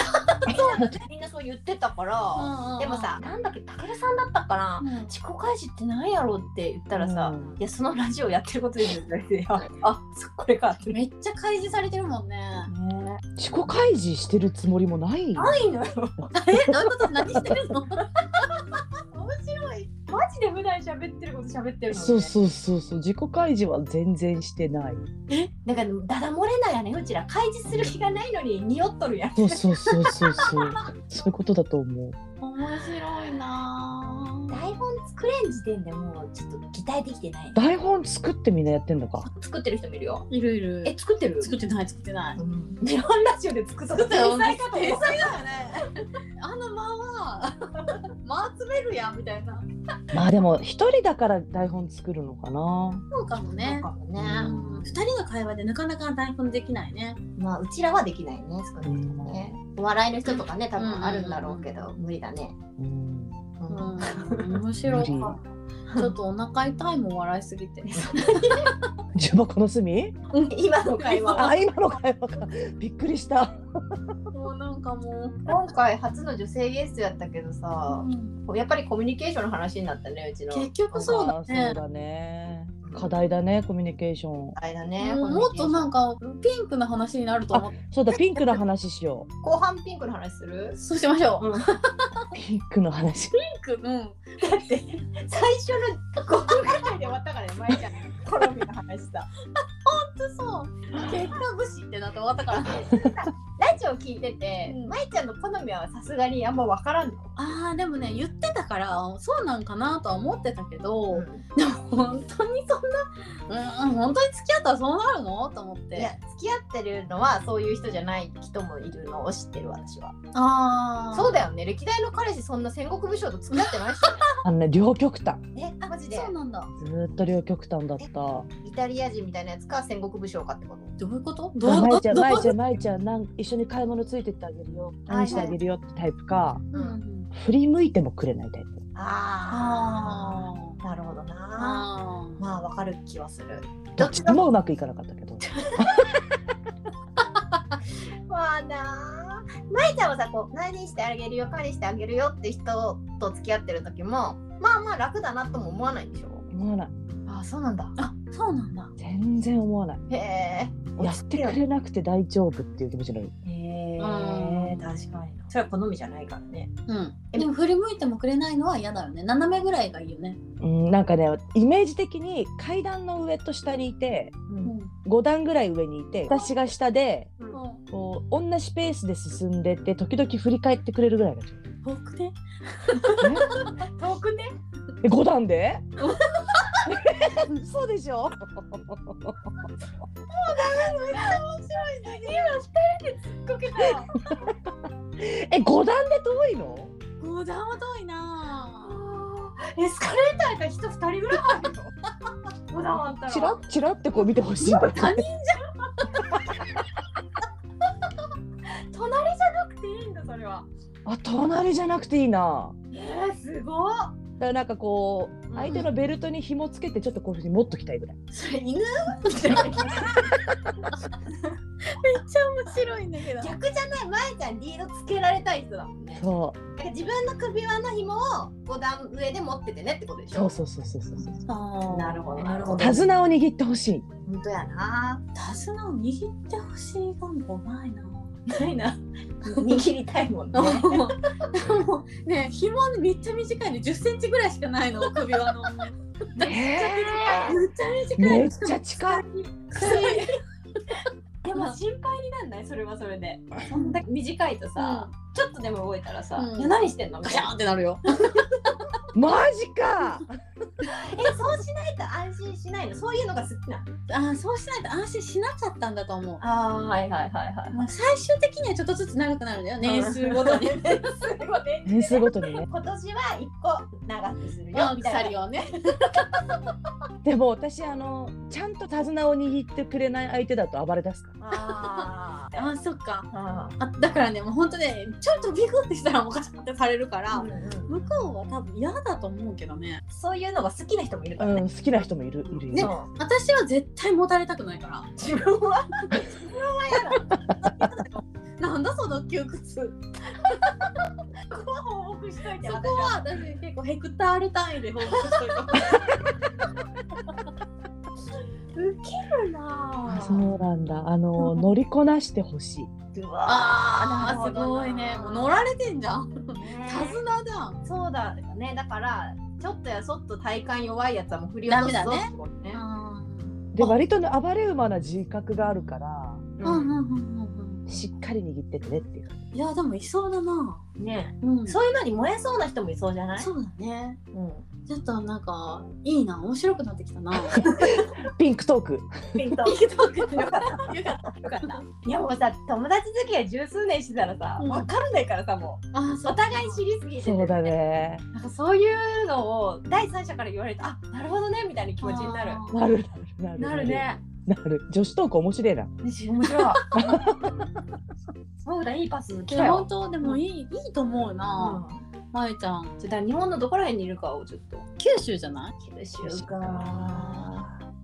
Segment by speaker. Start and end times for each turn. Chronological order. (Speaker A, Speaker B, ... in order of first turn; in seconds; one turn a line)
Speaker A: 0.1-0.6
Speaker B: 0.5-11.0
Speaker A: 2.3-3.1
Speaker A: 4.8-5.1
Speaker C: 6.9-7.6
Speaker A: 10.9-12.7
Speaker B: 12.7-13.2
Speaker C: 13.4-15.6
Speaker B: 15.3-16.1
Speaker A: 16.3-18.1
Speaker C: 17.2-17.6
Speaker B: 19.1-22.3
Speaker C: 21.9-25.1
Speaker B: 25.6-29.8
Speaker C: 29.4-32.1
Speaker A: 32.4-34.6
Speaker B: 34.5-37.6
Speaker C: 37.5-39.3
Speaker B: 39.2-40.3
Speaker A: 40.3-42.4
Speaker B: 40.8-41.5
Speaker B: 42.4-45.6
Speaker A: 43.9-49.6
Speaker C: 50.1-53.0
Speaker A: 53.1-57.2
Speaker B: 53.6-54.5
Speaker C: 54.2-54.8
Speaker B: 57.4-62.5
Speaker C: 58.8-59.4
Speaker A: 60.2-61.7
Speaker C: 62.8-63.4
Speaker B: 63.6-64.5
Speaker A: 63.7-65.4
Speaker C: 64.8-65.4
Speaker A: 65.9-68.8
Speaker C: 69.2-70.2
Speaker A: 70.3-71.5
Speaker B: 70.5-71.5
Speaker C: 71.2-74.1
Speaker A: 74.3-75.4
Speaker B: 75.5-81.2
Speaker A: 77.9-78.3
Speaker A: 80.5-81.8
Speaker C: 81.1-84.5
Speaker B: 82.8-83.2
Speaker B: 84.6-85.9
Speaker A: 85.0-87.7
Speaker C: 87.5-89.3
Speaker B: 89.4-90.8
Speaker A: 90.7-92.3
Speaker B: 91.4-91.6
Speaker C: 92.3-93.3
Speaker A: 93.3-94.3
Speaker B: 94.4-99.3
Speaker A: 99.8-102.9
Speaker B: 102.7-107.3
Speaker A: 104.6-105.0
Speaker A: 107.3-116.1
Speaker B: 111.1-111.4
Speaker B: 116.0-120.1
Speaker A: 120.3-121.4
Speaker B: 121.2-124.2
Speaker A: 123.5-124.2
Speaker C: 124.4-125.4
Speaker B: 125.5-126.3
Speaker A: 126.1-126.7
Speaker C: 126.8-128.5
Speaker B: 128.6-130.9
Speaker A: 131.0-132.5
Speaker C: 131.6-136.6
Speaker B: 135.1-135.5
Speaker A: 136.7-137.3
Speaker C: 137.3-138.8
Speaker B: 138.9-141.8
Speaker A: 139.5-140.7
Speaker A: 141.6-142.4
Speaker B: 142.4-144.4
Speaker C: 143.9-146.2
Speaker B: 148.3-156.4
Speaker C: 156.5-156.9
Speaker B: 157.3-157.9
Speaker A: 158.0-158.9
Speaker C: 159.0-160.0
Speaker B: 160.1-161.6
Speaker C: 161.0-163.3
Speaker B: 163.4-166.7
Speaker A: 164.0-164.9
Speaker A: 166.9-170.4
Speaker C: 170.6-174.3
Speaker B: 174.5-174.7
Speaker A: 174.6-174.9
Speaker C: 175.0-177.3
Speaker A: 177.5-177.8
Speaker C: 177.9-181.6
Speaker A: 181.8-183.8
Speaker C: 183.2-183.7
Speaker B: 184.0-184.5
Speaker C: 185.0-185.9
Speaker A: 186.0-186.8
Speaker C: 186.8-189.3
Speaker A: 190.3-191.4
Speaker B: 190.5-192.6
Speaker A: 192.1-194.1
Speaker C: 195.2-196.9
Speaker A: 197.2-199.0
Speaker B: 198.8-201.9
Speaker B: 202.7-203.6
Speaker C: 203.3-205.2
Speaker A: 204.6-205.7
Speaker B: 208.9-210.7
Speaker C: 211.0-212.7
Speaker B: 212.9-214.1
Speaker C: 214.4-218.2
Speaker B: 215.5-215.8
Speaker B: 218.3-219.9
Speaker A: 219.3-220.1
Speaker A: 221.8-223.5
Speaker B: 223.4-226.2
Speaker C: 226.1-226.6
Speaker B: 226.8-230.6
Speaker C: 230.3-231.4
Speaker A: 231.4-232.8
Speaker B: 231.9-232.9
Speaker C: 232.8-234.1
Speaker B: 234.2-235.2
Speaker A: 235.3-238.3
Speaker B: 238.5-241.1
Speaker A: 239.5-239.8
Speaker A: 240.5-248.8
Speaker C: 246.4-247.6
Speaker B: 247.0-247.5
Speaker C: 248.2-249.2
Speaker B: 249.1-250.3
Speaker A: 249.7-250.3
Speaker B: 251.4-257.5
Speaker A: 251.5-251.8
Speaker A: 253.7-254.0
Speaker A: 254.8-255.1
Speaker A: 256.4-258.9
Speaker C: 259.1-260.3
Speaker B: 260.9-263.9
Speaker A: 264.1-266.4
Speaker B: 266.4-267.8
Speaker A: 267.7-271.0
Speaker B: 269.8-275.4
Speaker C: 271.9-272.6
Speaker A: 274.7-276.4
Speaker C: 277.2-281.3
Speaker B: 281.4-282.7
Speaker A: 281.6-290.0
Speaker B: 283.3-283.8
Speaker B: 287.3-288.1
Speaker B: 290.1-291.6
Speaker C: 291.4-292.9
Speaker B: 292.5-293.1
Speaker A: 292.7-295.1
Speaker B: 295.2-297.2
Speaker A: 296.9-300.8
Speaker B: 301.5-303.2
Speaker A: 302.6-306.0
Speaker B: 308.7-310.5
Speaker C: 310.1-312.9
Speaker B: 313.1-315.6
Speaker A: 313.4-317.8
Speaker B: 316.5-317.2
Speaker B: 317.8-322.8
Speaker A: 321.6-324.0
Speaker C: 323.7-326.5
Speaker B: 326.6-326.9
Speaker A: 326.6-327.8
Speaker C: 327.9-329.4
Speaker A: 329.5-330.8
Speaker B: 331.0-333.5
Speaker A: 331.4-331.8
Speaker A: 333.4-334.2
Speaker B: 334.3-334.7
Speaker A: 334.9-337.7
Speaker C: 337.5-339.6
Speaker B: 339.4-347.7
Speaker A: 339.6-341.8
Speaker A: 344.6-344.9
Speaker A: 345.9-346.8
Speaker C: 347.2-348.2
Speaker B: 348.3-352.6
Speaker A: 352.0-352.8
Speaker C: 352.7-355.9
Speaker B: 353.7-354.1
Speaker B: 356.0-356.9
Speaker A: 356.4-356.7
Speaker C: 356.9-357.4
Speaker B: 358.6-360.4
Speaker A: 359.5-361.8
Speaker B: 361.6-362.0
Speaker A: 362.3-362.9
Speaker B: 363.0-364.8
Speaker A: 365.0-365.7
Speaker B: 365.8-367.3
Speaker C: 366.2-367.7